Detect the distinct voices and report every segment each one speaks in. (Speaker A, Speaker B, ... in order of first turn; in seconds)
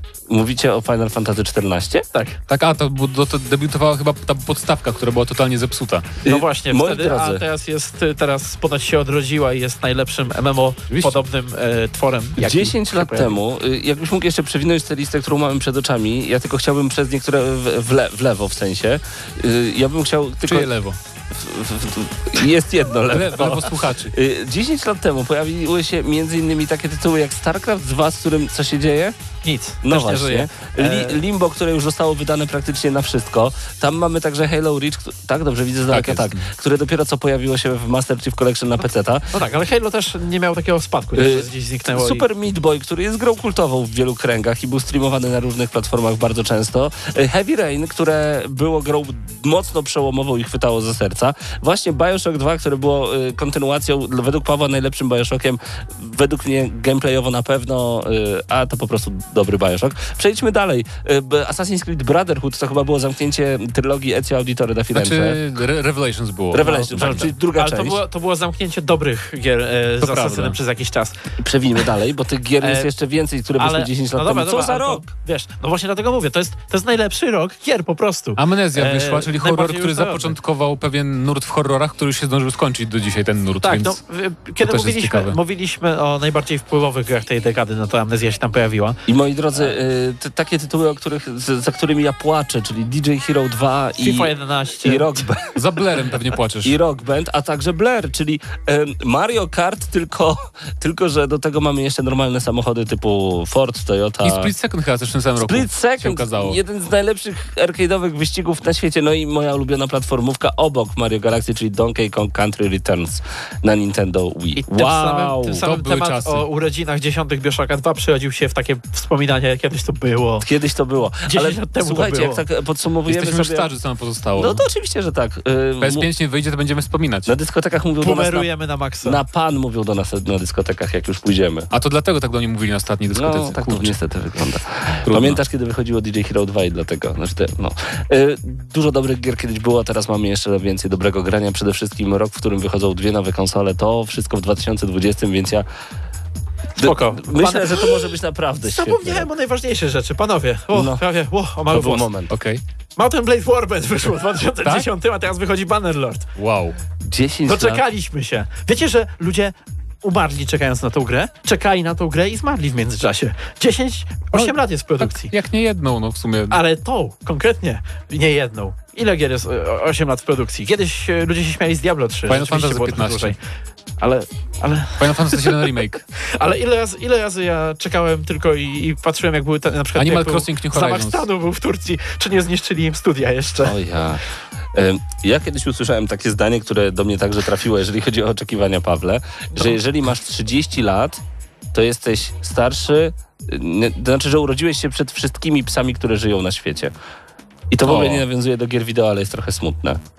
Speaker A: 0.3-2.0, 6.2-7.4, 12.4-20.7, 21.3-29.1, 29.8-39.3, 41.1-65.4, 66.5-68.0, 71.4-75.1, 89.1-94.3, 94.8-95.6, 96.6-104.5, 105.4-115.6, 120.4-123.7, 124.3-126.1, 127.3-128.5, 129.0-131.7, 133.1-145.7, 146.8-149.3, 150.7-151.0, 151.7-152.3, 157.0-157.8, 183.6-184.2, 184.7-191.2, 191.7-196.9, 197.7-200.0
Speaker B: 2.1-2.4, 6.2-13.3, 29.4-31.2, 39.3-42.2, 66.6-71.2, 72.6-72.9, 73.6-80.3, 83.6-89.0, 94.0-95.1, 114.6-120.5, 121.3-122.4, 128.0-129.2, 146.8-148.1, 148.6-152.1, 153.0-156.3, 157.4-165.3, 166.5-173.4, 174.0-183.8
Speaker C: 2.5-6.2, 10.9-11.2, 20.4-21.0, 23.1-24.1, 35.9-36.5, 64.9-67.3, 70.0-70.6, 78.4-84.0, 84.6-85.4, 95.5-96.7, 104.2-106.6, 115.5-116.4, 123.1-124.7, 125.8-127.3, 131.7-134.0, 135.1-135.4, 152.3-152.6, 156.3-156.7, 164.3-166.6, 172.2-173.3, 175.0-176.0, 179.9-181.2, 197.8-198.2